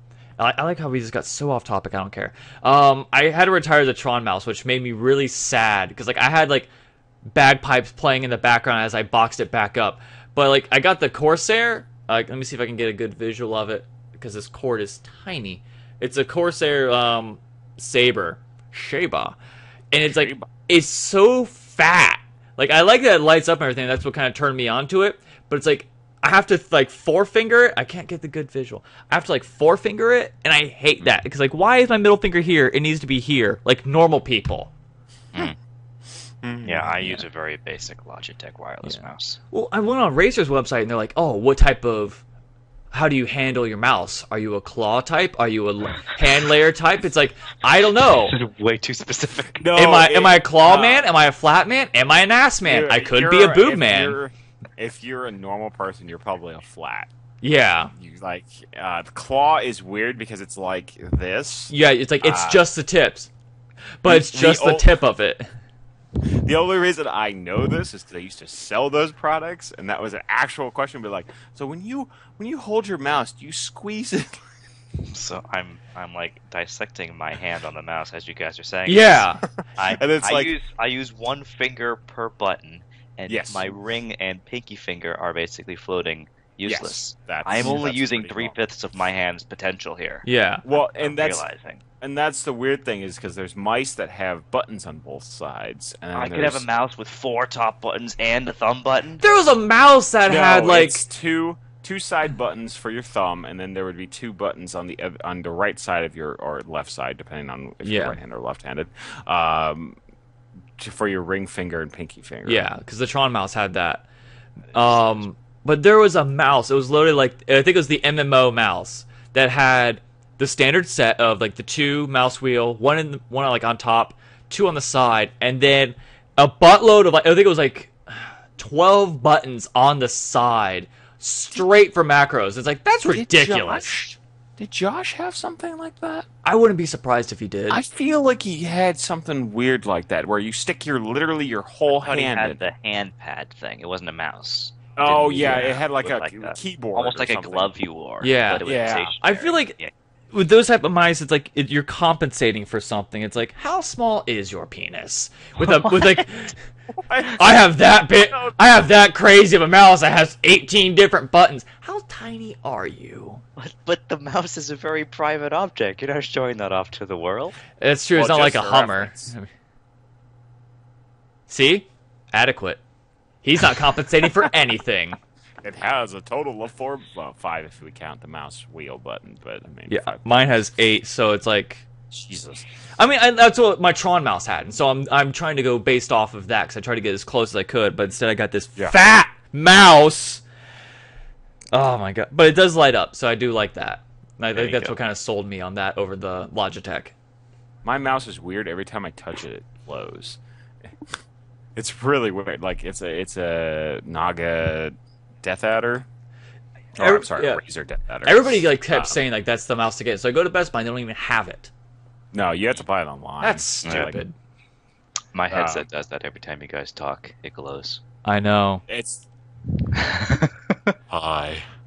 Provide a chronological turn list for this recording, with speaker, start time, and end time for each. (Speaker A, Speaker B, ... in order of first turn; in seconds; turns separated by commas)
Speaker A: 0.4-6.7, Speaker A: 7.3-19.4, Speaker A: 19.9-34.7, Speaker B: 20.0-20.5, Speaker B: 36.4-37.0, Speaker C: 36.6-39.4, Speaker A: 38.8-42.2, Speaker A: 42.9-48.4, Speaker C: 48.2-49.6, Speaker B: 49.6-51.1, Speaker A: 49.7-54.2, Speaker B: 52.6-57.1, Speaker A: 57.4-57.9, Speaker B: 58.0-62.6, Speaker A: 61.7-63.3, Speaker A: 64.0-65.5, Speaker B: 64.0-65.0, Speaker B: 66.3-74.4, Speaker C: 75.0-91.8, Speaker A: 78.9-79.4, Speaker B: 79.8-80.5, Speaker B: 83.3-83.7, Speaker B: 86.6-88.6, Speaker A: 90.2-90.6, Speaker B: 90.6-91.5, Speaker B: 92.0-96.7, Speaker C: 96.1-99.2, Speaker A: 99.2-101.0, Speaker B: 100.2-110.0, Speaker A: 107.8-108.2, Speaker B: 110.8-112.7, Speaker A: 112.5-114.0, Speaker A: 114.7-134.0, Speaker B: 133.1-136.3, Speaker A: 136.4-137.8, Speaker B: 137.7-142.6, Speaker C: 141.9-149.9, Speaker B: 144.9-147.7, Speaker A: 145.4-145.8, Speaker A: 148.2-148.6, Speaker B: 148.6-149.1, Speaker A: 149.2-149.7, Speaker A: 150.3-156.6, Speaker C: 155.6-156.2, Speaker B: 156.9-158.6, Speaker A: 157.4-163.4, Speaker C: 163.6-167.6, Speaker A: 167.8-169.5, Speaker B: 168.1-169.3, Speaker A: 171.5-172.8, Speaker A: 173.4-175.2, Speaker B: 175.6-180.2, Speaker A: 179.9-181.9, Speaker B: 182.1-182.7, Speaker A: 183.0-190.4, Speaker A: 191.7-197.1, Speaker C: 194.5-195.0, Speaker B: 197.8-200.4, Speaker B: 201.8-206.1, Speaker B: 207.0-209.2, Speaker A: 207.0-207.6, Speaker A: 208.2-211.7, Speaker B: 212.3-214.2, Speaker A: 213.4-214.3, Speaker C: 213.8-214.1, Speaker C: 215.3-218.0, Speaker B: 215.5-215.9, Speaker A: 218.2-218.8, Speaker B: 218.9-219.3, Speaker C: 219.9-220.9, Speaker B: 221.1-221.6